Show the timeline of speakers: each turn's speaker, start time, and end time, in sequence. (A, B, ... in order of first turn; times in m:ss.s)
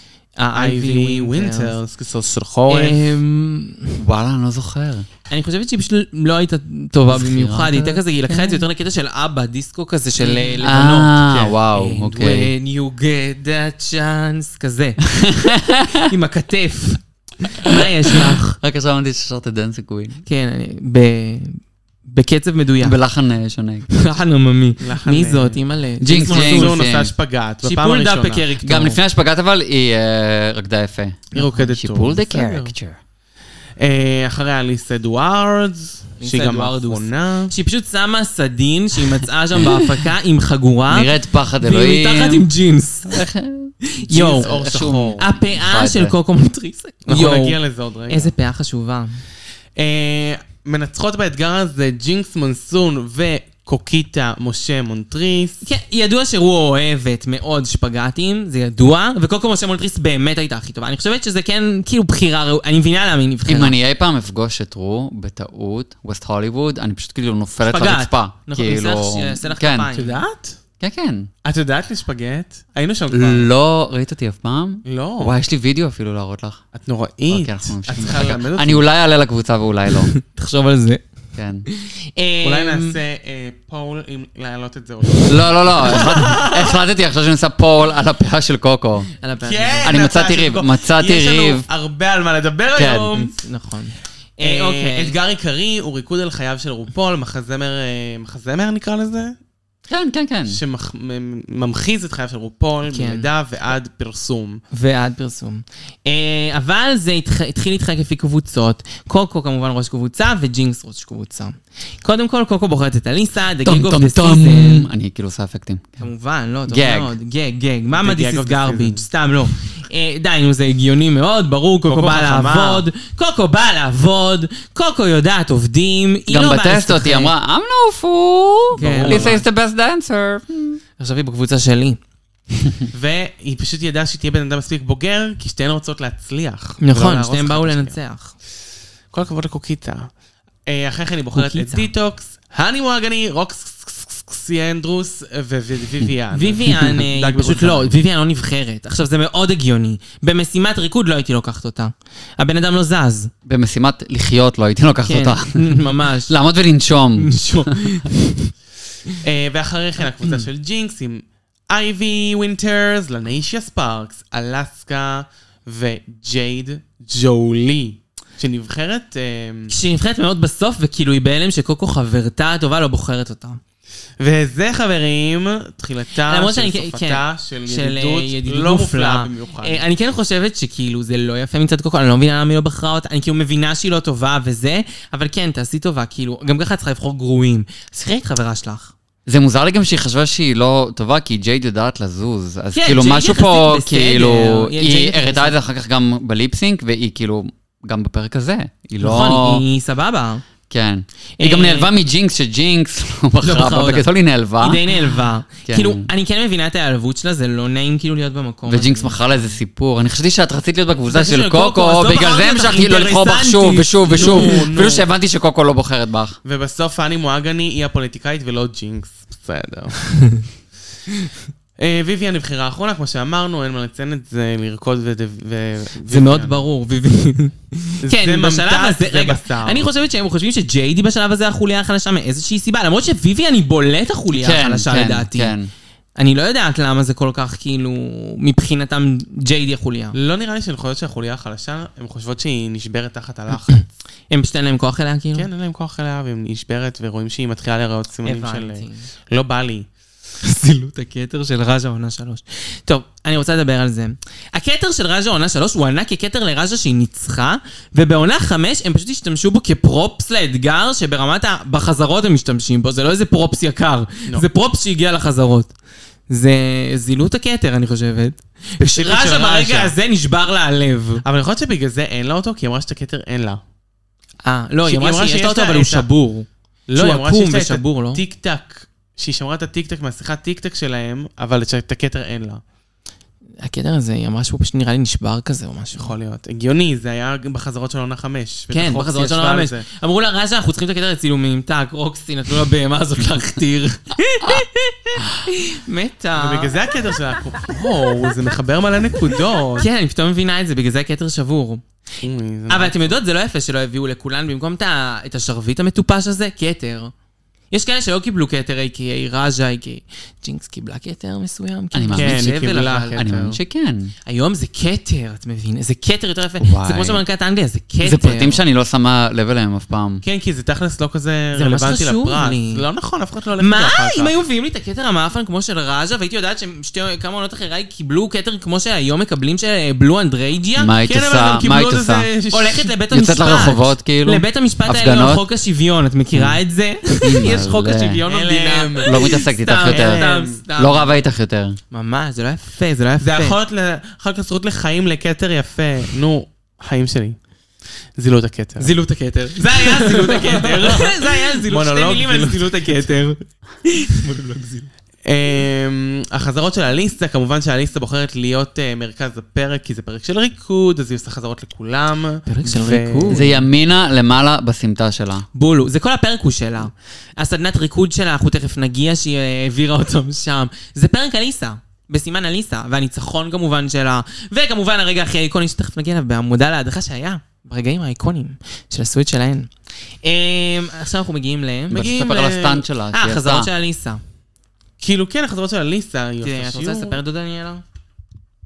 0:00.4-0:01.8 A
0:00.6-0:03.1 B
0:02.7-0:04.0 A
0:04.0-0:05.1 C
0:05.3-0:15.1 A
0:07.1-0:08.6 C
0:10.6-0:12.5 C
0:15.2-0:16.1 C
0:16.0-0:18.6 A
0:17.7-0:20.2 C
0:20.2-0:23.0 A
0:22.8-0:23.9 C
0:23.9-0:26.8 A
0:24.8-0:28.5 B
0:26.0-0:27.1 C
0:27.6-0:29.0 A
0:28.6-0:33.0 C
0:31.3-0:32.7 B
0:33.8-0:37.5 B
0:36.2-0:43.2 A
0:39.6-0:40.1 C
0:40.9-0:42.5 C
0:43.1-0:43.8 C
0:44.0-0:44.5 A
0:44.1-0:45.2 B
0:44.3-0:46.1 C
0:45.2-0:47.6 A
0:47.1-0:48.3 B
0:48.1-0:49.2 A
0:49.8-0:55.6 B
0:55.6-1:03.8 A
1:03.5-1:09.9 C
1:07.7-1:10.2 A
1:09.9-1:10.6 B
1:10.8-1:11.3 C
1:11.4-1:13.5 B
1:13.1-1:16.6 C
1:14.8-1:15.4 B
1:16.7-1:18.8 B
1:17.3-1:20.1 C
1:20.1-1:21.0 A
1:21.4-1:21.7 C
1:21.8-1:23.0 A
1:22.4-1:26.8 B
1:25.3-1:29.1 C
1:29.2-1:30.0 A
1:29.4-1:33.4 B
1:29.8-1:31.7 C
1:32.8-1:33.2 C
1:33.2-1:35.2 A
1:34.4-1:39.4 B
1:39.9-1:40.6 C
1:40.5-1:44.6 B
1:42.9-1:43.3 A
1:44.7-1:54.9 A
1:53.6-1:56.0 C
1:56.0-2:07.3 A
1:56.7-1:57.1 C
1:57.9-1:59.0 B
2:01.9-2:02.9 B
2:06.3-2:10.8 C
2:08.7-2:09.4 A
2:08.8-2:09.4 B
2:11.0-2:12.0 A
2:12.9-2:18.0 B
2:16.8-2:18.3 A
2:19.1-2:20.1 B
2:20.7-2:28.0 B
2:21.4-2:21.9 A
2:26.3-2:33.3 A
2:33.5-2:37.8 C
2:35.1-2:36.4 A
2:37.2-2:38.5 A
2:39.2-2:49.7 B
2:49.7-2:53.6 A
2:54.2-2:59.8 B
2:56.3-3:08.9 A
3:09.3-3:19.6 C
3:12.7-3:15.5 A
3:19.0-3:20.4 A
3:20.7-3:24.8 C
3:21.4-3:21.9 A
3:23.4-3:24.1 A
3:24.6-3:29.5 A
3:25.7-3:26.1 C
3:28.7-3:36.4 C
3:31.1-3:34.6 A
3:34.1-3:35.1 B
3:36.4-3:40.0 B
3:41.8-3:46.6 B
3:46.1-3:55.5 A
3:48.0-3:49.9 B
3:54.3-3:55.7 C
3:56.2-4:00.2 A
4:00.1-4:03.9 B
4:03.7-4:05.5 A
4:05.4-4:09.9 B
4:08.2-4:09.1 A
4:10.4-4:25.7 A
4:26.3-4:31.2 A
4:28.8-4:30.0 B
4:31.2-4:33.6 B
4:34.4-4:38.2 A
4:34.8-4:36.1 B
4:36.9-4:42.6 B
4:43.6-4:46.2 A
4:46.0-4:49.9 B
4:48.7-4:56.7 A
4:56.4-4:59.9 B
4:59.8-5:01.8 A
5:02.2-5:03.2 B
5:02.7-5:07.1 A
5:07.7-5:13.2 A
5:11.9-5:12.4 C
5:12.1-5:13.6 B
5:13.2-5:14.1 C
5:14.3-5:18.6 A
5:16.6-5:17.2 C
5:18.0-5:20.2 C
5:20.2-5:24.4 B
5:21.6-5:22.8 A
5:23.6-5:30.9 A
5:30.8-5:32.3 C
5:31.1-5:32.9 B
5:32.5-5:41.2 A
5:33.1-5:35.4 C
5:36.3-5:36.6 C
5:37.2-5:38.2 C
5:38.2-5:40.6 B
5:39.0-5:41.8 C
5:41.9-5:43.6 A
5:43.2-5:47.4 B
5:48.2-5:49.0 B
5:48.8-5:54.9 A
5:49.6-5:53.1 B
5:55.2-6:03.5 B
6:02.5-6:03.6 A
6:03.3-6:05.5 C
6:05.6-6:19.7 A
6:20.2-6:22.0 A
6:21.9-6:22.8 B
6:21.9-6:23.7 C
6:23.1-6:24.2 A
6:25.0-6:27.2 B
6:26.4-6:27.8 A